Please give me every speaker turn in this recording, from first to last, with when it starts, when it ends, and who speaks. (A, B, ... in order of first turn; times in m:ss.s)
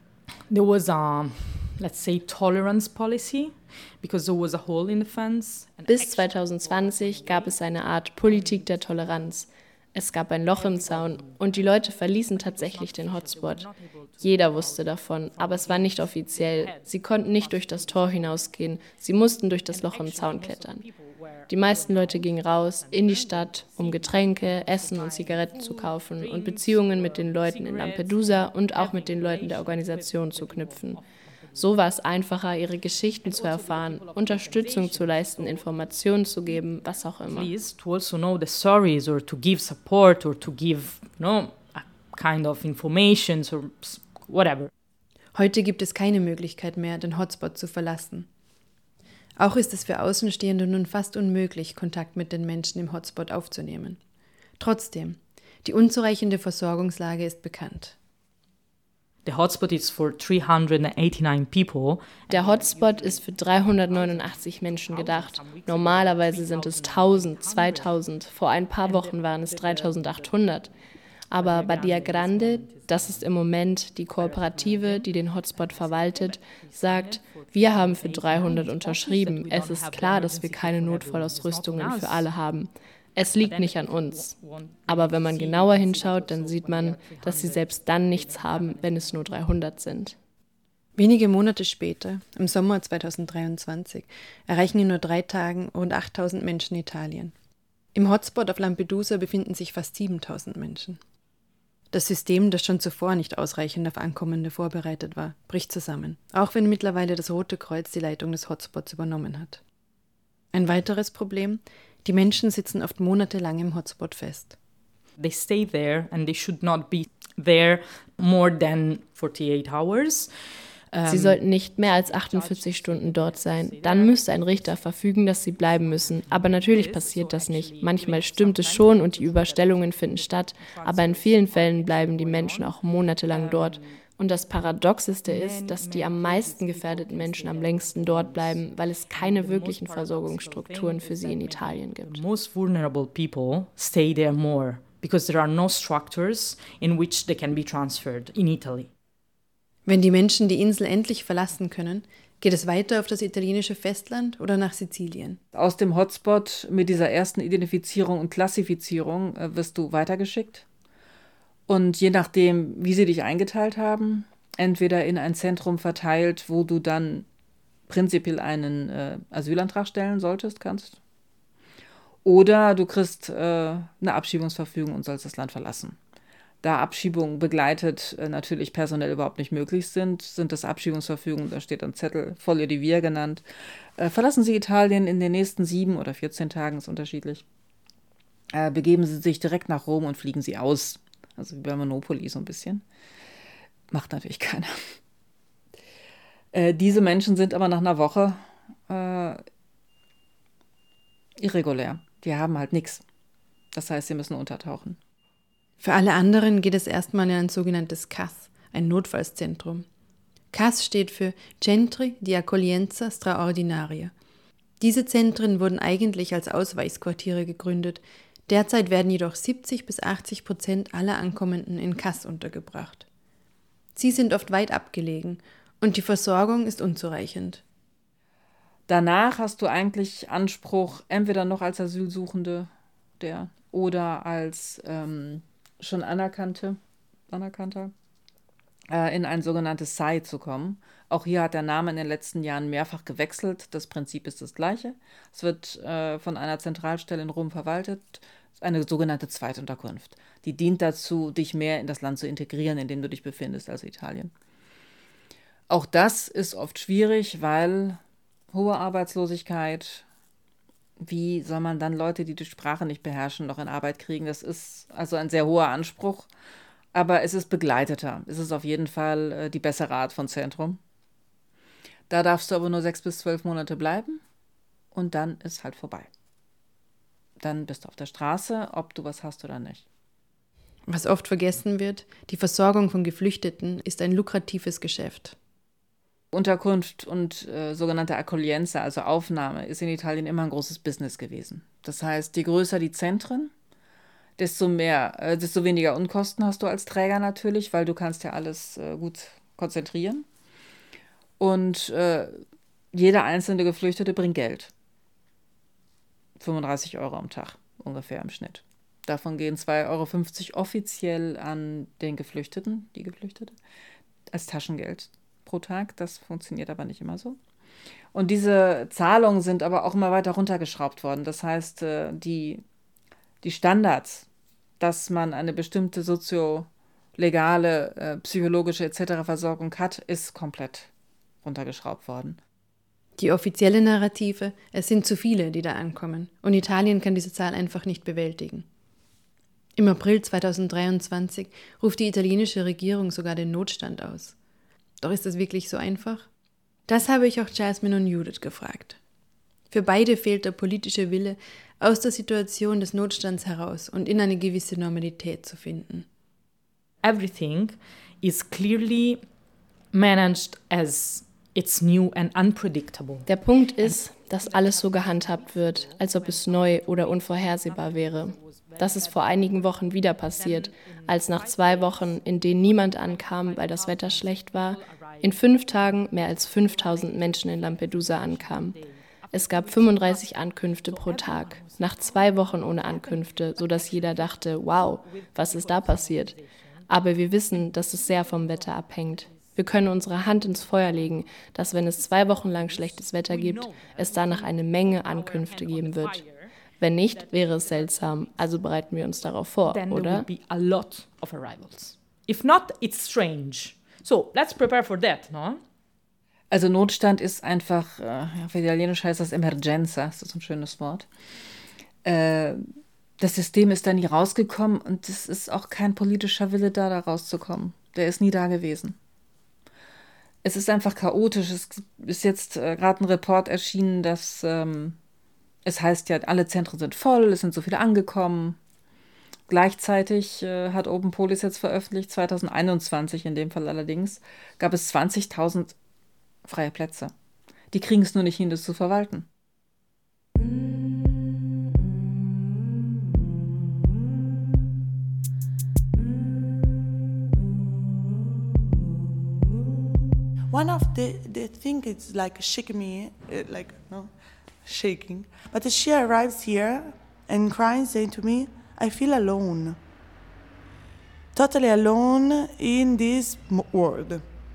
0:00.5-0:07.6 A
0:05.9-0:20.9 B
0:08.3-0:08.7 A
0:10.5-0:18.2 A
0:19.7-0:31.6 A
0:21.5-0:37.5 B
0:33.2-0:35.7 A
0:37.3-0:44.7 A
0:45.3-0:48.3 C
0:49.4-0:54.0 C
0:54.6-0:57.9 C
0:59.2-1:03.2 A
1:02.3-1:10.7 B
1:03.9-1:08.0 A
1:08.8-1:10.1 A
1:11.3-1:30.2 B
1:11.3-1:13.3 A
1:14.2-1:22.3 A
1:23.2-1:29.1 A
1:31.0-1:37.3 C
1:37.9-1:41.0 C
1:41.9-1:49.6 C
1:50.5-1:54.5 C
1:55.2-2:01.4 A
2:01.0-2:22.2 B
2:02.0-2:04.7 A
2:05.8-2:14.0 A
2:15.2-2:28.9 A
2:29.8-2:35.4 C
2:35.5-2:40.6 D
2:41.7-2:47.3 D
2:47.9-2:51.0 D
2:52.2-2:56.0 D
2:56.6-3:07.4 D
3:08.5-3:12.8 D
3:13.9-3:15.0 D
3:16.5-3:19.4 D
3:21.4-3:23.0 D
3:23.7-3:25.0 D
3:25.8-3:29.8 C
3:30.5-3:34.1 C
3:34.8-3:43.0 C
3:44.0-3:47.6 C
3:48.9-3:56.8 D
3:57.3-3:57.9 D
3:58.9-4:14.3 D
4:15.7-4:18.0 D
4:18.5-4:20.0 D
4:21.0-4:26.3 D
4:26.9-4:30.8 D
4:32.1-4:34.2 D
4:34.9-4:36.1 D
4:37.4-4:39.8 D
4:40.9-4:45.3 C
4:46.3-4:53.5 D
4:54.4-5:00.2 D
5:01.4-5:04.7 D
5:06.4-5:13.6 D
5:14.3-5:17.4 D
5:18.1-5:22.6 D
5:23.4-5:24.2 D
5:24.8-5:30.9 D
5:31.4-5:32.4 D
5:33.2-5:38.6 C
5:39.8-5:44.3 C
5:45.0-5:46.2 C
5:46.9-5:49.0 C
5:49.7-5:56.1 C
5:57.0-5:59.2 A
5:59.9-6:03.3 A
6:03.2-6:40.3 B
6:21.2-6:21.7 A
6:26.3-6:26.6 A
6:33.4-6:34.4 A
6:35.4-6:36.5 A
6:39.6-6:45.6 A
6:46.5-6:51.1 D
6:52.0-6:59.0 D
7:00.4-7:05.0 D
7:05.6-7:08.6 D
7:09.5-7:15.8 D
7:16.4-7:17.1 D
7:17.7-7:19.3 D
7:30.5-7:39.8 E
7:41.3-7:44.2 E